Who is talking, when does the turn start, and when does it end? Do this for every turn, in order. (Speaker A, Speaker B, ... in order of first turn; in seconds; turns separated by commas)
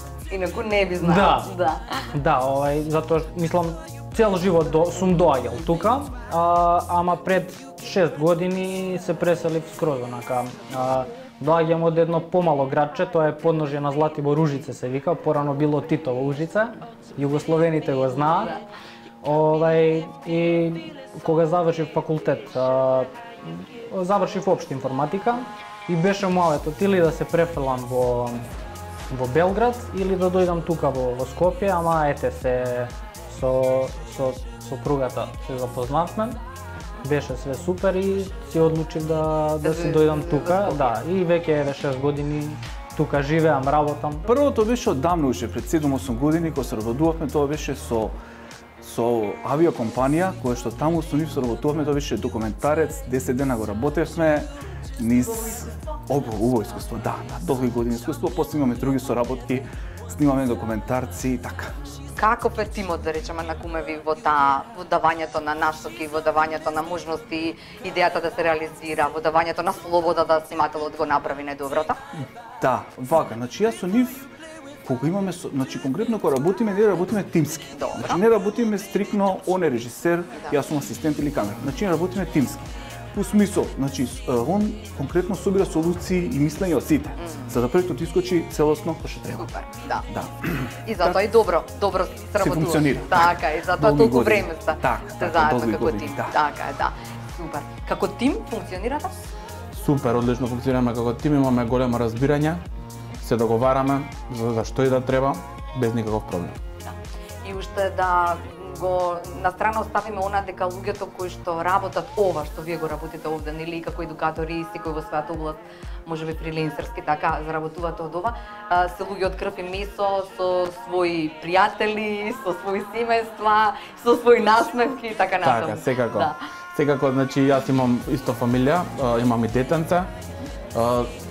Speaker A: 0.3-2.0, Speaker B: 1.0-1.5, Speaker B: 2.1-18.6, Speaker B: 19.2-28.4, Speaker B: 29.1-36.4, Speaker B: 37.0-44.2, Speaker A: 39.6-41.0, Speaker C: 44.2-48.1, Speaker C: 48.8-61.8, Speaker A: 62.1-72.0, Speaker C: 72.6-74.3, Speaker C: 74.8-89.5, Speaker A: 77.7-78.2, Speaker A: 87.2-87.5, Speaker A: 89.3-90.0, Speaker C: 90.1-91.2, Speaker A: 90.8-99.1, Speaker C: 92.4-96.4, Speaker D: 99.7-102.6, Speaker D: 103.2-106.6, Speaker A: 106.8-126.4, Speaker D: 125.4-130.1, Speaker D: 130.7-131.1